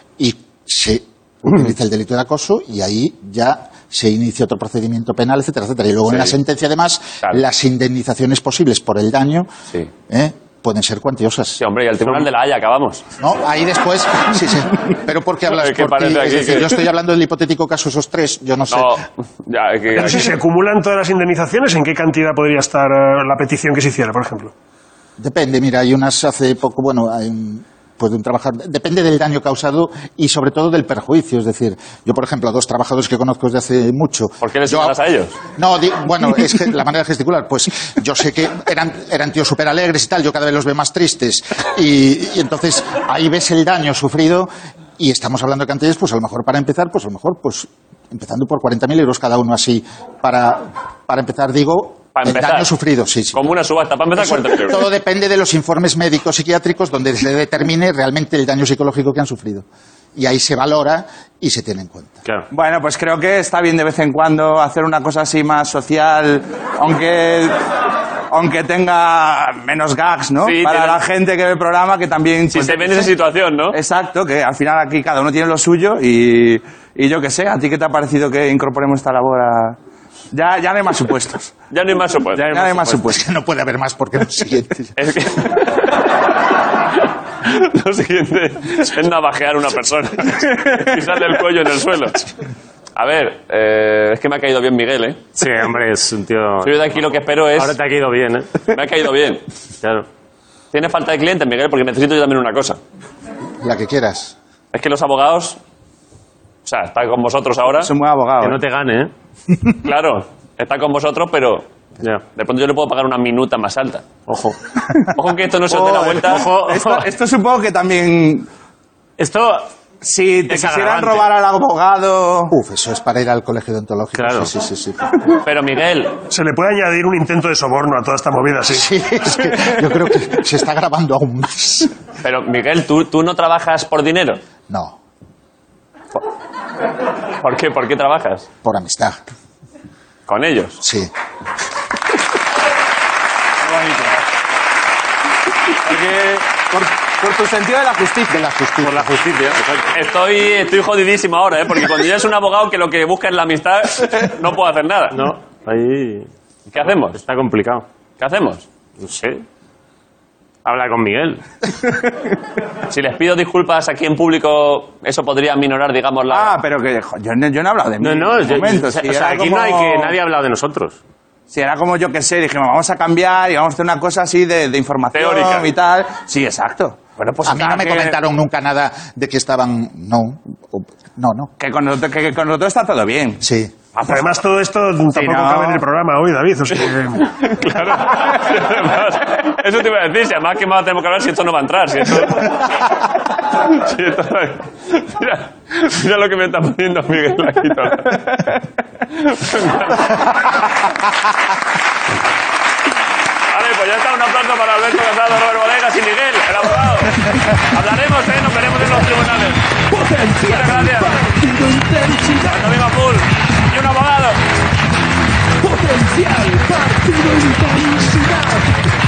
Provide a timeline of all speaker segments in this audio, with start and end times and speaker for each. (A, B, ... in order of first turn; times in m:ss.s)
0:00.2-0:09.5 A
0:06.1-0:06.3 B
0:10.1-0:11.6 A
0:11.6-0:13.0 B
0:13.2-0:19.0 A
0:15.5-0:16.7 B
0:18.7-0:20.3 B
0:20.0-0:24.5 C
0:25.2-0:35.0 A
0:34.4-0:35.4 B
0:35.6-0:53.5 A
0:52.1-0:52.7 B
0:53.3-0:54.8 B
0:54.1-0:59.6 A
1:00.2-1:02.2 A
1:02.5-1:07.5 D
1:08.3-1:13.2 D
1:10.4-1:11.0 B
1:12.5-1:13.8 B
1:13.7-1:19.8 D
1:20.3-1:21.6 D
1:21.7-1:22.5 B
1:22.4-1:23.2 D
1:23.0-1:24.9 A
1:25.0-1:25.7 B
1:27.4-1:32.3 B
1:33.0-1:35.4 B
1:35.4-1:36.8 E
1:36.6-1:37.8 B
1:37.6-1:38.5 E
1:38.7-1:39.4 B
1:39.8-1:40.1 E
1:40.7-1:42.8 B
1:43.6-1:44.3 A
1:44.7-1:45.6 B
1:46.6-1:47.9 B
1:47.8-1:48.6 D
1:48.4-1:49.1 E
1:49.8-1:51.7 B
1:52.3-1:54.1 B
1:54.3-1:54.6 E
1:55.1-1:56.5 B
1:55.7-1:58.5 D
1:56.2-1:57.1 E
1:59.2-1:59.7 E
2:00.0-2:02.5 D
2:00.5-2:01.3 E
2:02.5-2:05.0 A
2:04.1-2:04.5 E
2:05.4-2:06.2 B
2:06.3-2:08.9 C
2:08.7-2:11.9 A
2:12.2-2:14.4 B
2:14.7-2:15.0 A
2:17.4-2:18.5 B
2:18.6-2:19.2 A
2:20.3-2:20.8 B
2:20.8-2:21.1 A
2:23.6-2:24.1 D
2:25.8-2:28.6 D
2:28.8-2:29.9 E
2:29.9-2:35.3 B
2:35.1-2:36.3 E
2:36.7-2:37.2 B
2:36.8-2:37.8 E
2:38.2-2:38.6 B
2:39.0-2:39.4 E
2:40.6-2:41.9 E
2:42.9-2:46.5 B
2:46.3-2:50.2 D
2:48.0-2:51.0 E
2:51.5-2:58.2 D
2:55.1-2:55.7 B
2:57.2-2:57.8 B
2:57.4-3:01.5 A
3:01.6-3:03.4 D
3:03.4-3:03.7 A
3:04.0-3:04.2 D
3:04.0-3:07.3 C
3:05.1-3:05.8 D
3:07.4-3:12.5 B
3:13.7-3:18.3 B
3:19.2-3:20.3 B
3:23.5-3:29.6 B
3:29.9-3:32.8 F
3:30.5-3:31.2 B
3:32.5-3:34.4 B
3:35.6-3:38.7 F